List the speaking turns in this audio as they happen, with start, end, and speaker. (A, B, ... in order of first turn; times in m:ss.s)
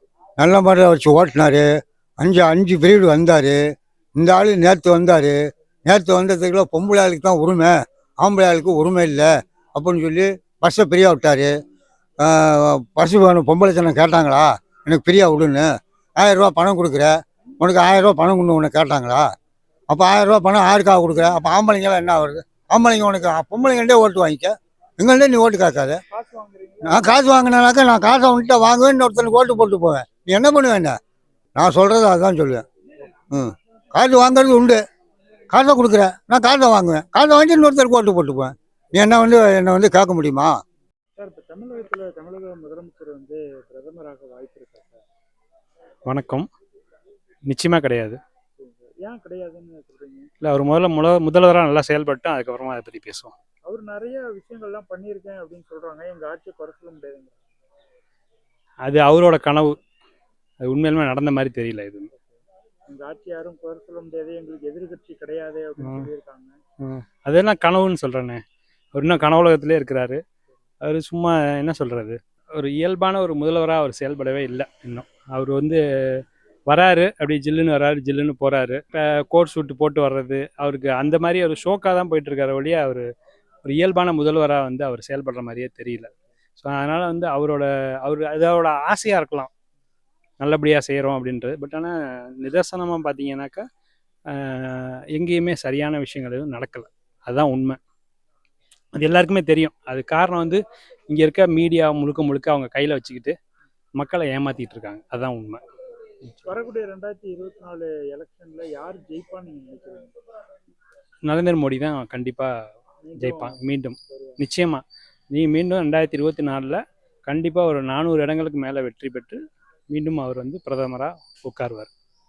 0:00.4-0:01.6 A
0:02.2-0:03.6 A
0:04.2-0:11.5 A
0:12.2-0:19.3 A
0:19.9-0:26.0 A
0:26.1-0:27.3 B
0:26.8-0:31.0 A
0:31.6-0:32.6 A
0:33.3-0:34.8 A
0:35.5-0:40.5 A
0:41.2-0:45.0 B
0:46.1-0:46.5 C
0:47.5-0:48.2 C
0:48.6-0:50.3 B
0:50.4-0:53.3 C
0:53.7-0:57.4 B
0:58.8-0:59.8 C
1:00.6-1:02.1 C
1:02.9-1:06.5 B
1:06.8-1:08.4 C
1:08.9-1:10.2 C
1:10.8-1:23.1 C
1:23.6-1:29.5 C
1:30.4-1:33.6 C
1:34.3-1:37.8 C
1:39.0-1:43.3 C
1:44.0-1:45.6 C
1:46.5-1:50.1 B
1:51.3-1:52.5 C
1:53.0-1:54.4 B
1:53.2-1:59.4 C
1:59.9-2:01.9 C